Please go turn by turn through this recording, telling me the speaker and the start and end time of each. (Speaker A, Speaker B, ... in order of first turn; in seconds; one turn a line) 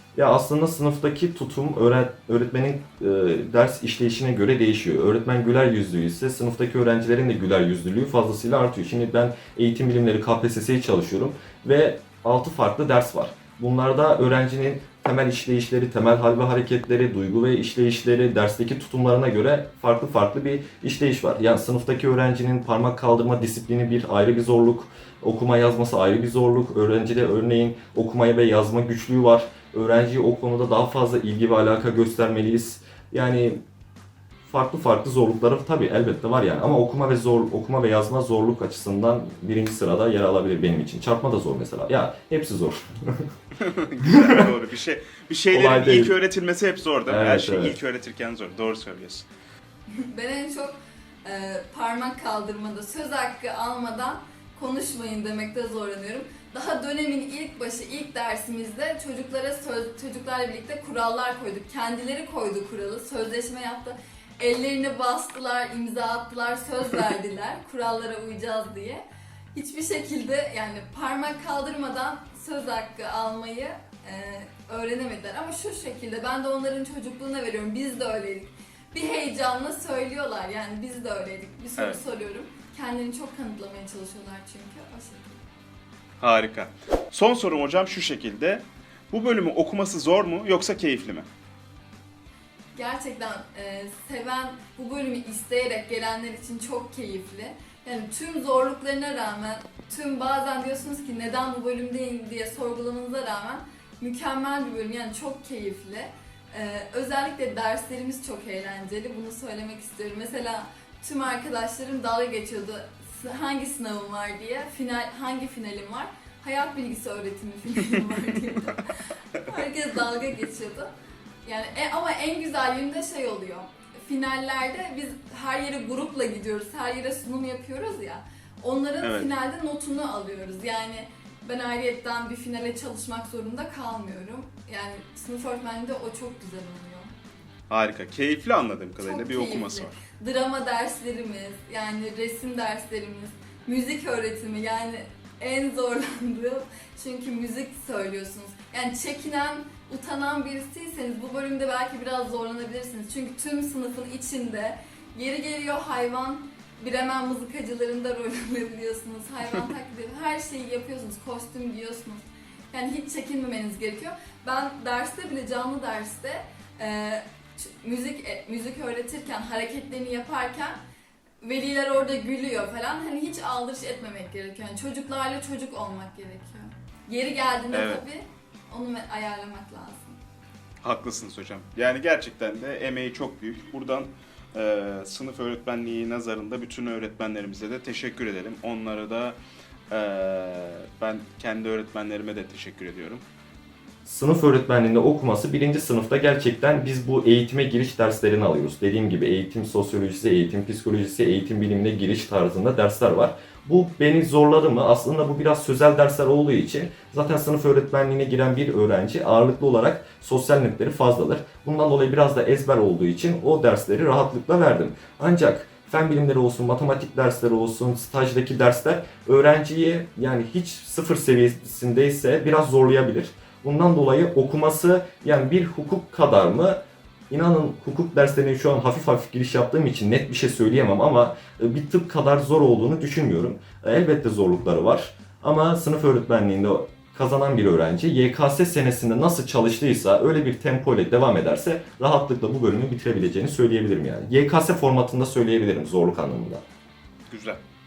Speaker A: 0.1-33.6
Speaker A: 34.5-43.3
Speaker B: 43.6-49.3
Speaker A: 44.1-44.4
Speaker A: 45.5-46.2
Speaker A: 47.1-47.8
Speaker C: 49.9-69.0
Speaker C: 69.5-85.4
Speaker B: 86.2-91.3
Speaker C: 92.8-120.9
Speaker C: 121.5-137.1
Speaker B: 129.0-129.3
Speaker B: 137.7-140.0
Speaker C: 139.0-170.8
Speaker C: 171.4-180.2
Speaker B: 177.7-178.0
Speaker B: 180.8-189.4
Speaker B: 189.9-193.2
Speaker A: 194.1-246.6
Speaker B: 247.3-247.6